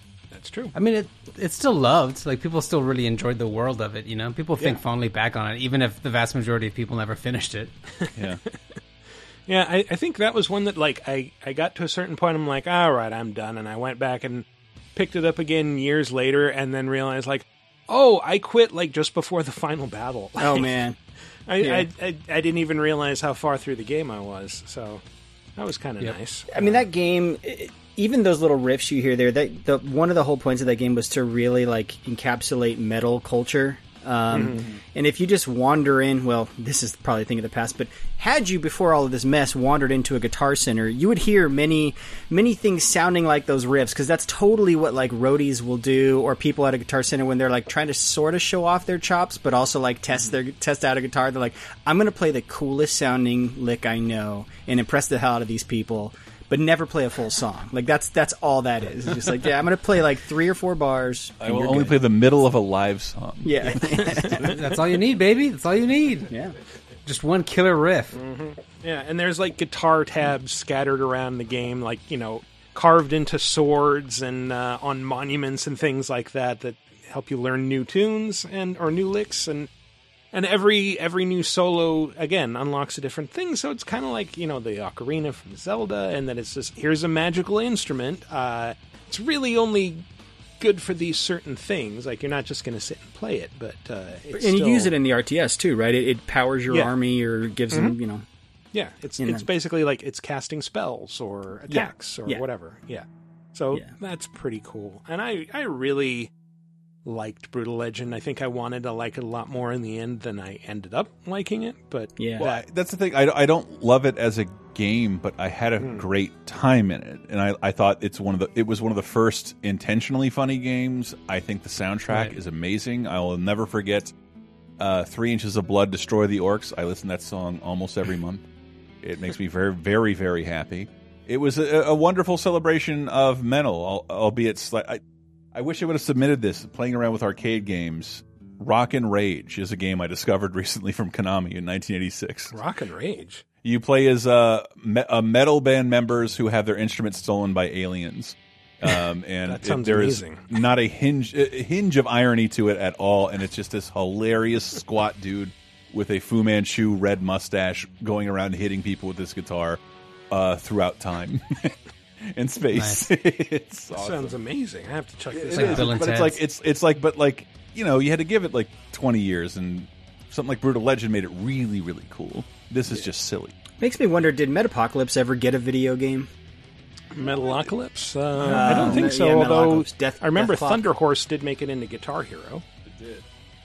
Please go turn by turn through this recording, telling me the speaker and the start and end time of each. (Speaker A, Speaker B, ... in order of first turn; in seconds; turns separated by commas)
Speaker A: 0.3-0.7, Speaker B: 0.8-7.8, Speaker A: 8.0-8.5, Speaker C: 8.2-8.4, Speaker A: 9.5-20.8, Speaker D: 20.4-21.0, Speaker A: 21.5-25.0, Speaker D: 21.6-21.9, Speaker A: 25.6-26.5, Speaker D: 26.5-62.0, Speaker A: 34.3-34.6, Speaker C: 61.4-64.6, Speaker D: 63.4-64.5, Speaker B: 64.5-66.3, Speaker D: 66.3-66.5, Speaker B: 67.1-68.2, Speaker A: 68.1-79.7, Speaker A: 80.3-90.0, Speaker A: 90.6-94.9, Speaker D: 94.3-98.2, Speaker A: 97.7-98.0, Speaker A: 98.7-106.3, Speaker D: 99.2-99.5, Speaker D: 101.7-102.4, Speaker A: 107.0-112.7, Speaker D: 112.2-112.5, Speaker C: 112.4-124.1, Speaker A: 115.8-116.1, Speaker C: 124.8-128.5, Speaker C: 129.0-135.0, Speaker C: 135.5-142.6, Speaker A: 142.5-143.4, Speaker C: 143.6-164.4, Speaker A: 149.5-150.4, Speaker B: 162.8-163.0, Speaker A: 163.9-166.0, Speaker C: 165.3-173.6, Speaker B: 165.5-166.4, Speaker D: 173.8-176.3, Speaker A: 177.1-182.6, Speaker D: 178.4-180.9, Speaker C: 178.4-179.1, Speaker C: 182.9-183.2